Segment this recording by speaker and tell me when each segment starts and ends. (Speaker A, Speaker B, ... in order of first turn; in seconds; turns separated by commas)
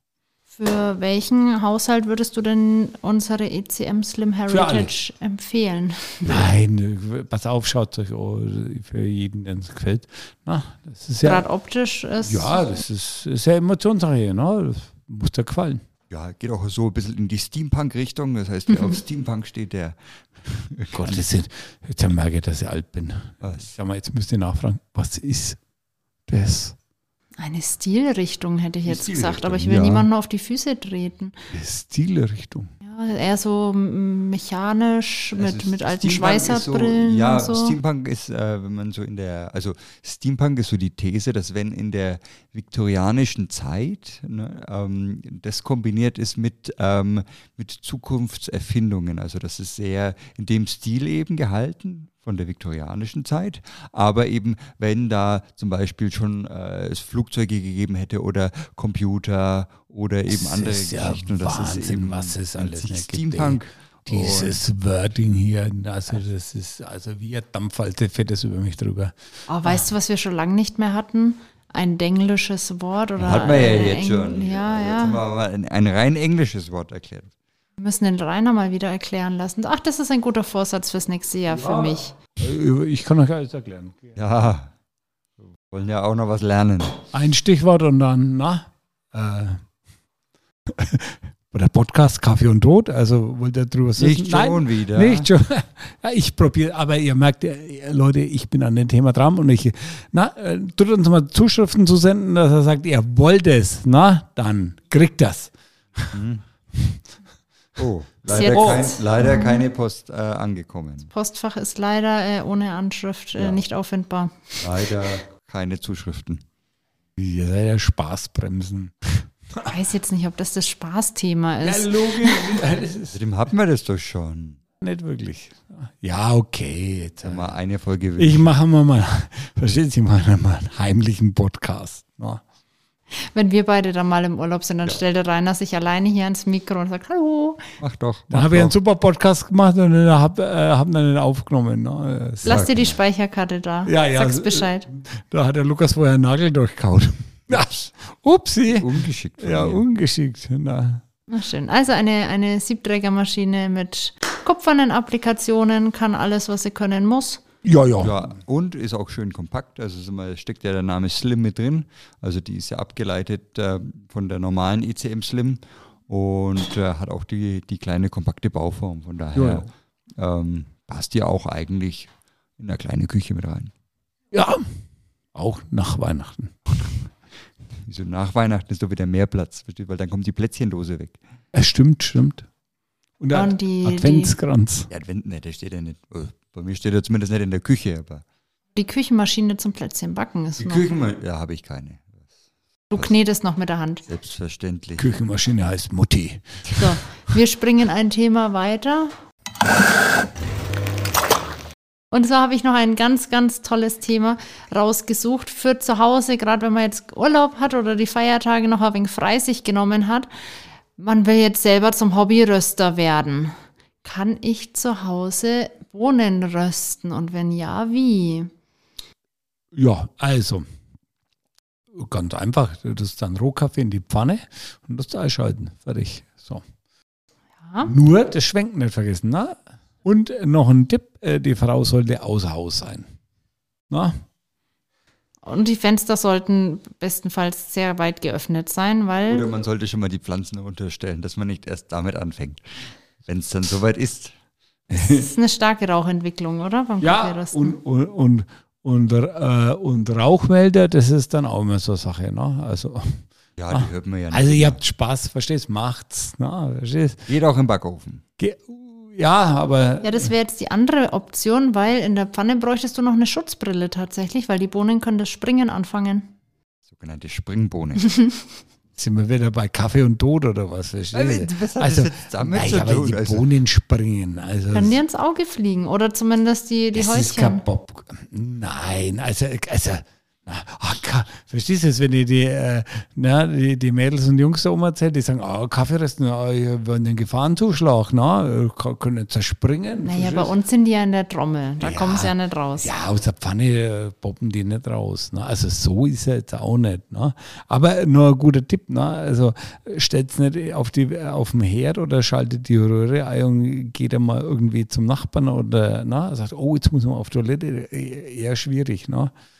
Speaker A: 0.5-6.5, Speaker B: 4.5-4.9, Speaker B: 6.2-11.5, Speaker A: 11.2-12.7, Speaker B: 12.2-15.8, Speaker C: 16.1-21.2, Speaker B: 20.9-25.6, Speaker C: 23.4-23.7, Speaker B: 26.3-26.8, Speaker A: 27.4-31.4, Speaker C: 28.9-30.1, Speaker B: 31.5-32.7, Speaker A: 32.8-37.8, Speaker C: 35.4-64.6, Speaker B: 60.3-69.8, Speaker A: 69.5-75.2, Speaker C: 73.2-77.3, Speaker A: 77.8-82.2, Speaker B: 81.5-84.2, Speaker C: 84.2-84.7, Speaker C: 85.6-87.0, Speaker B: 87.1-89.6, Speaker B: 90.7-106.2, Speaker C: 94.0-95.3, Speaker C: 106.1-106.4, Speaker B: 106.7-107.0, Speaker C: 107.8-111.1, Speaker A: 108.3-109.6, Speaker B: 108.4-108.9, Speaker A: 111.1-114.5, Speaker C: 113.4-113.6, Speaker C: 114.6-116.4, Speaker B: 117.2-119.7, Speaker A: 119.7-122.6, Speaker B: 121.6-123.2, Speaker C: 123.1-124.6, Speaker B: 124.8-127.5, Speaker C: 127.2-128.5, Speaker B: 128.2-132.4, Speaker A: 133.1-137.7, Speaker C: 137.8-138.7, Speaker B: 138.3-142.6, Speaker A: 142.4-144.9, Speaker C: 142.4-142.9, Speaker B: 143.9-151.0, Speaker C: 148.7-149.8, Speaker A: 151.3-157.4, Speaker B: 157.6-158.2, Speaker C: 158.0-173.7, Speaker B: 169.3-169.7, Speaker B: 174.3-174.8, Speaker B: 175.3-176.9, Speaker C: 177.8-181.2, Speaker B: 181.5-182.5, Speaker B: 183.2-184.9, Speaker A: 183.3-184.3, Speaker C: 184.9-188.2, Speaker A: 188.8-191.0, Speaker C: 190.6-192.3, Speaker A: 192.9-194.1, Speaker C: 194.1-195.1, Speaker B: 195.0-196.8, Speaker A: 196.8-199.1, Speaker A: 202.1-210.3, Speaker A: 211.0-218.5, Speaker B: 219.7-220.7, Speaker B: 221.9-226.6, Speaker A: 227.6-227.9, Speaker B: 227.8-233.1, Speaker B: 233.9-234.2, Speaker A: 235.4-239.5, Speaker C: 239.3-242.6, Speaker C: 243.2-244.3, Speaker B: 244.9-245.3, Speaker A: 245.0-247.8, Speaker B: 247.0-257.3, Speaker C: 253.6-254.8, Speaker C: 257.3-258.2, Speaker B: 258.4-260.3, Speaker A: 260.0-266.3, Speaker C: 266.9-268.1, Speaker B: 269.0-275.0, Speaker C: 271.1-273.5, Speaker A: 274.7-277.6, Speaker B: 276.9-290.5, Speaker A: 290.0-292.9, Speaker B: 291.8-309.3